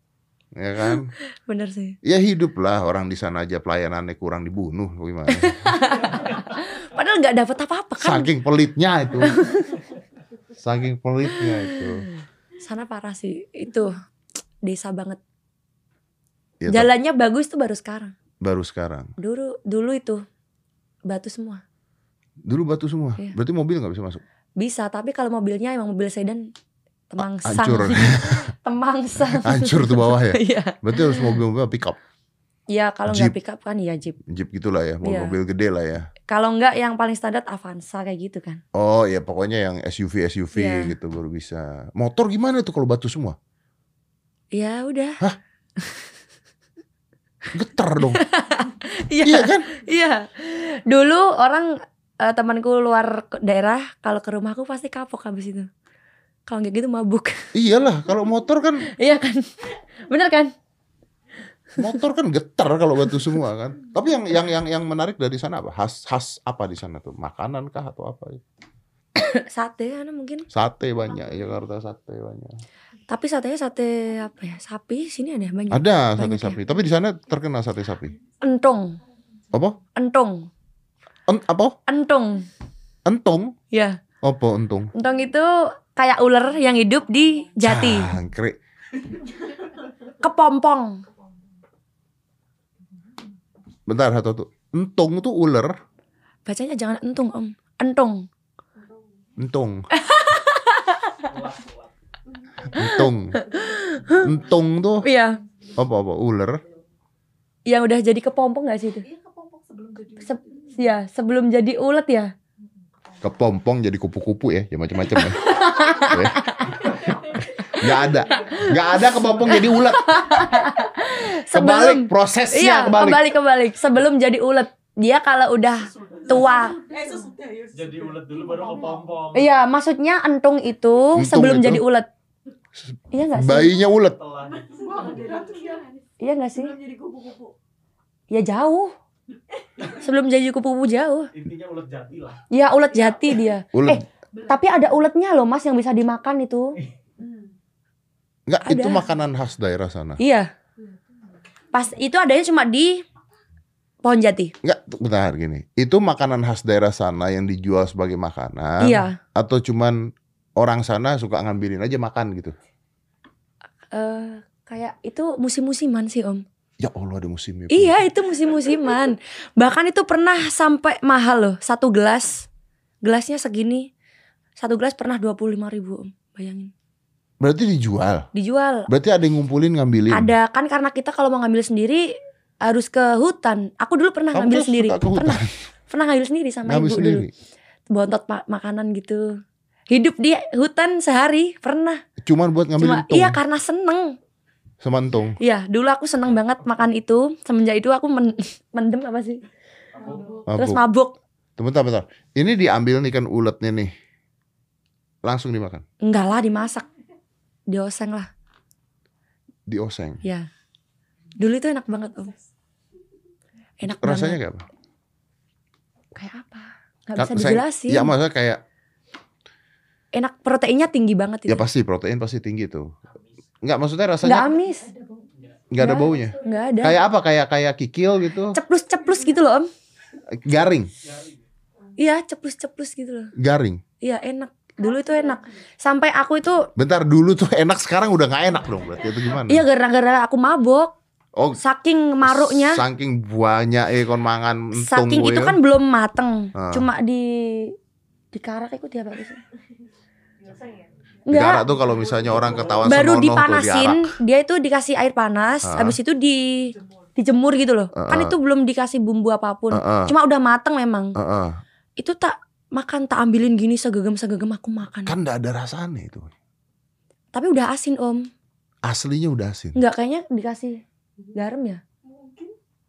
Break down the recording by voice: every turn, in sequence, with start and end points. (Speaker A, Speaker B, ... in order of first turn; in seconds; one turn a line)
Speaker A: 0.6-1.1
Speaker B: 0.8-2.0
Speaker A: 2.0-5.7
Speaker B: 5.3-8.3
Speaker A: 8.0-9.4
Speaker B: 9.2-9.8
Speaker A: 10.6-12.1
Speaker B: 11.3-11.9
Speaker B: 12.6-13.9
Speaker B: 14.6-15.2
Speaker A: 16.6-16.9
Speaker B: 16.7-18.1
Speaker A: 18.4-19.1
Speaker B: 19.2-20.2
Speaker B: 21.1-21.6
Speaker A: 22.4-24.2
Speaker B: 24.6-26.5
Speaker B: 27.1-31.4
Speaker A: 27.3-28.4
Speaker A: 29.2-32.0
Speaker B: 32.7-34.2
Speaker A: 33.1-33.3
Speaker A: 34.3-36.1
Speaker B: 35.0-35.4
Speaker B: 36.3-38.6
Speaker A: 38.7-43.4
Speaker B: 40.5-40.9
Speaker B: 44.5-45.2
Speaker A: 47.5-48.2
Speaker B: 48.1-55.7
Speaker A: 49.2-49.7
Speaker B: 56.5-57.5
Speaker A: 57.5-58.9
Speaker B: 58.9-60.5
Speaker A: 61.8-68.4
Speaker B: 69.2-70.5
Speaker A: 70.5-72.5
Speaker B: 73.1-76.6
Speaker A: 75.7-78.1
Speaker B: 78.4-79.0
Speaker A: 79.5-79.8
Speaker B: 79.9-80.5
Speaker A: 81.3-81.8
Speaker B: 81.9-82.5
Speaker A: 83.0-83.5
Speaker B: 83.7-84.0
Speaker A: 84.2-84.9
Speaker B: 84.9-88.1
Speaker A: 87.6-88.6
Speaker B: 90.2-91.0
Speaker A: 93.9-95.8
Speaker B: 96.5-98.3
Speaker A: 99.4-99.9
Speaker B: 99.9-101.3
Speaker C: 101.3-101.9
Speaker A: 102.7-103.4
Speaker B: 102.8-104.3
Speaker A: 104.2-105.1
Speaker B: 105.0-105.4
Speaker A: 105.8-106.6
Speaker B: 107.7-109.0
Speaker D: 109.0-110.6
Speaker B: 110.2-112.3
Speaker A: 113.2-120.4
Speaker B: 115.1-117.0
Speaker B: 117.8-126.8
Speaker A: 121.5-123.3
Speaker D: 126.2-129.2
Speaker C: 127.7-129.5
Speaker B: 129.3-132.1
Speaker A: 131.2-131.8
Speaker A: 132.9-134.2
Speaker B: 133.1-133.8
Speaker C: 134.2-135.1
Speaker D: 134.5-137.5
Speaker B: 136.2-136.7
Speaker B: 138.3-138.9
Speaker B: 140.0-141.3
Speaker C: 141.3-142.4
Speaker B: 142.5-146.8
Speaker A: 143.7-144.0
Speaker D: 147.2-147.4
Speaker A: 148.5-150.2
Speaker B: 148.7-149.1
Speaker B: 150.2-150.5
Speaker B: 151.7-153.0
Speaker B: 154.0-154.5
Speaker A: 154.6-160.0
Speaker B: 158.8-159.2
Speaker A: 160.6-162.5
Speaker B: 163.9-166.4
Speaker A: 166.8-167.9
Speaker B: 167.7-172.5
Speaker B: 173.0-173.9
Speaker B: 174.6-176.7
Speaker A: 177.4-178.3
Speaker B: 178.3-178.9
Speaker A: 178.9-180.3
Speaker B: 180.1-187.2
Speaker A: 184.3-185.5
Speaker A: 186.7-187.3
Speaker B: 187.9-192.0
Speaker A: 192.2-193.4
Speaker B: 192.8-194.2
Speaker A: 194.8-195.4
Speaker B: 195.4-199.4
Speaker D: 200.0-200.4
Speaker C: 200.0-200.4
Speaker A: 200.5-200.8
Speaker B: 200.5-201.1
Speaker A: 201.6-203.9
Speaker A: 205.2-205.8
Speaker B: 206.0-206.8
Speaker B: 207.7-208.3
Speaker A: 209.7-210.2
Speaker B: 210.2-210.5
Speaker B: 211.4-212.3
Speaker B: 213.8-214.4
Speaker A: 213.8-214.7
Speaker B: 216.1-218.1
Speaker A: 217.2-218.6
Speaker B: 220.1-221.7
Speaker A: 221.5-222.9
Speaker A: 223.6-224.5
Speaker B: 224.2-224.9
Speaker D: 224.6-225.3
Speaker A: 225.7-228.6
Speaker B: 225.8-227.0
Speaker B: 228.5-229.7
Speaker A: 230.3-230.9
Speaker C: 231.0-231.4
Speaker B: 232.0-233.3
Speaker A: 233.3-233.8
Speaker B: 234.0-236.7
Speaker D: 235.0-235.4
Speaker A: 236.8-239.6
Speaker B: 239.4-240.9
Speaker B: 241.6-242.8
Speaker A: 242.2-245.6
Speaker B: 244.7-247.8
Speaker A: 246.6-246.9
Speaker B: 248.3-249.4
Speaker D: 250.4-250.9
Speaker B: 251.3-251.7
Speaker A: 251.3-254.1
Speaker D: 251.4-252.1
Speaker C: 252.4-252.8
Speaker B: 252.8-261.1
Speaker A: 255.6-256.0
Speaker D: 256.7-257.1
Speaker A: 257.9-258.3
Speaker A: 259.7-260.1
Speaker A: 261.1-261.6
Speaker B: 262.0-265.1
Speaker A: 265.1-266.3
Speaker B: 267.3-268.3
Speaker A: 268.9-269.8
Speaker B: 269.7-270.8
Speaker B: 271.3-271.8
Speaker D: 272.0-272.5